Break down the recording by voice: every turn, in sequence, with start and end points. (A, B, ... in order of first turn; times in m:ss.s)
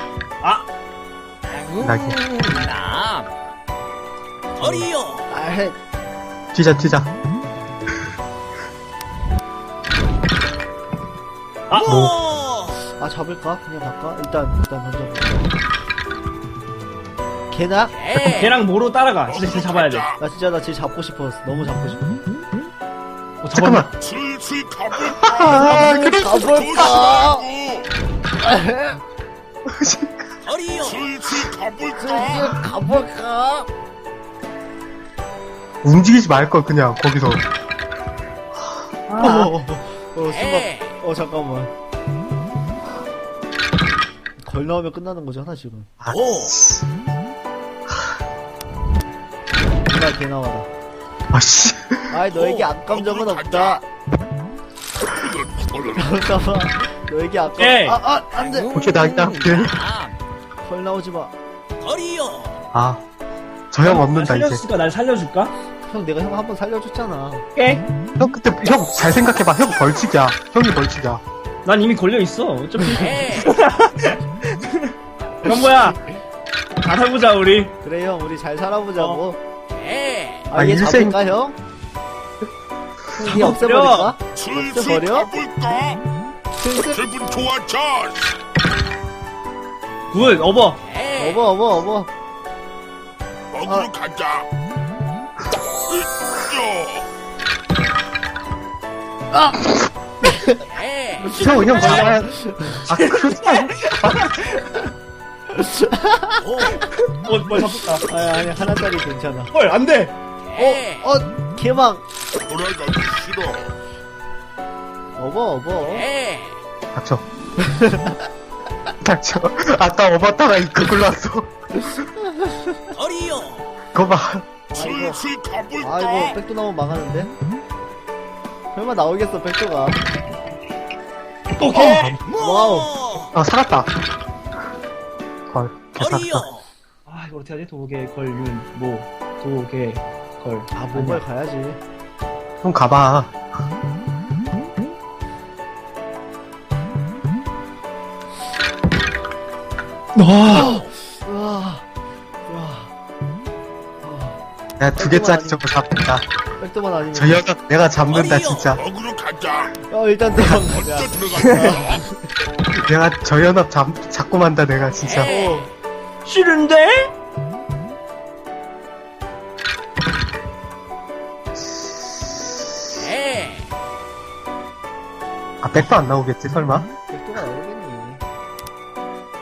0:01.8-0:02.2 A
0:04.6-0:04.8 B
0:05.3-0:05.8 C
0:06.5-0:07.1 A
0:11.7-0:12.0 B
0:11.8-0:12.2 A
0:13.0-0:15.5 C
0:17.5-0:18.0 C
0:18.1-0:20.1 B
0:19.4-0:20.1 D
0:20.2-0:22.0 C
0:23.4-0:23.9 B
0:23.5-0:23.9 A
0:24.0-0:27.9 D
0:25.2-0:26.4 A
0:25.4-0:27.5 C
0:28.4-0:29.0 C
0:29.7-0:30.3 A
0:30.8-0:32.4 D
0:32.0-0:33.7 C
0:35.8-0:37.4 A
0:39.1-0:39.5 B
0:39.2-0:41.7 C
0:44.4-0:45.9 C
0:46.0-0:46.9 A
0:49.9-0:50.7 C
0:51.3-0:52.2 A
0:52.1-0:53.8 C
0:52.4-0:53.7 D
0:55.1-0:55.9 D
0:55.9-0:58.7 C
0:57.6-0:58.0 B
0:58.7-0:59.9 A
1:00.6-1:01.3 C
1:02.7-1:03.0 A
1:03.7-1:04.6 A
1:03.8-1:05.5 B
1:05.9-1:07.4 C
1:07.6-1:07.8 B
1:08.2-1:11.2 A
1:11.6-1:16.0 B
1:16.8-1:17.7 B
1:17.8-1:19.4 C
1:20.5-1:21.6 C
1:20.5-1:21.2 A
1:23.1-1:25.3 C
1:23.2-1:24.1 B
1:24.4-1:26.0 D
1:26.6-1:27.0 C
1:26.9-1:28.4 D
1:30.1-1:30.8 B
1:31.2-1:32.1 C
1:33.5-1:34.4 D
1:36.4-1:37.0 D
1:39.3-1:39.7 C
1:40.2-1:40.6 C
1:41.3-1:42.2 B
1:41.3-1:42.8 C
1:41.3-1:44.2 A
1:43.0-1:44.9 B
1:45.5-1:46.8 C
1:46.6-1:48.1 B
1:48.0-1:49.5 C
1:49.5-1:50.1 B
1:50.6-1:52.0 C
1:52.5-1:53.7 D
1:55.2-1:56.1 C
1:56.9-1:57.2 A
1:57.6-1:58.2 C
1:59.0-2:01.5 A
2:01.9-2:02.9 C
2:03.9-2:04.5 A
2:04.7-2:05.2 C
2:04.8-2:05.8 D
2:05.8-2:07.3 C
2:08.7-2:10.0 C
2:11.6-2:12.1 B
2:11.8-2:12.2 A
2:11.9-2:13.1 C
2:13.3-2:13.9 A
2:15.5-2:16.5 A
2:17.1-2:21.2 B
2:20.7-2:21.8 C
2:22.6-2:23.3 A
2:30.1-2:30.8 B
2:30.5-2:31.8 C
2:32.5-2:32.9 C
2:34.0-2:34.4 C
2:34.8-2:36.3 A
2:35.0-2:35.6 C
2:36.6-2:37.4 C
2:37.1-2:38.8 A
2:38.8-2:39.7 D
2:39.7-2:42.3 C
2:40.7-2:42.0 D
2:42.8-2:45.3 A
2:45.2-2:45.7 C
2:46.2-2:47.1 B
2:55.6-2:56.9 A
2:57.1-2:58.2 C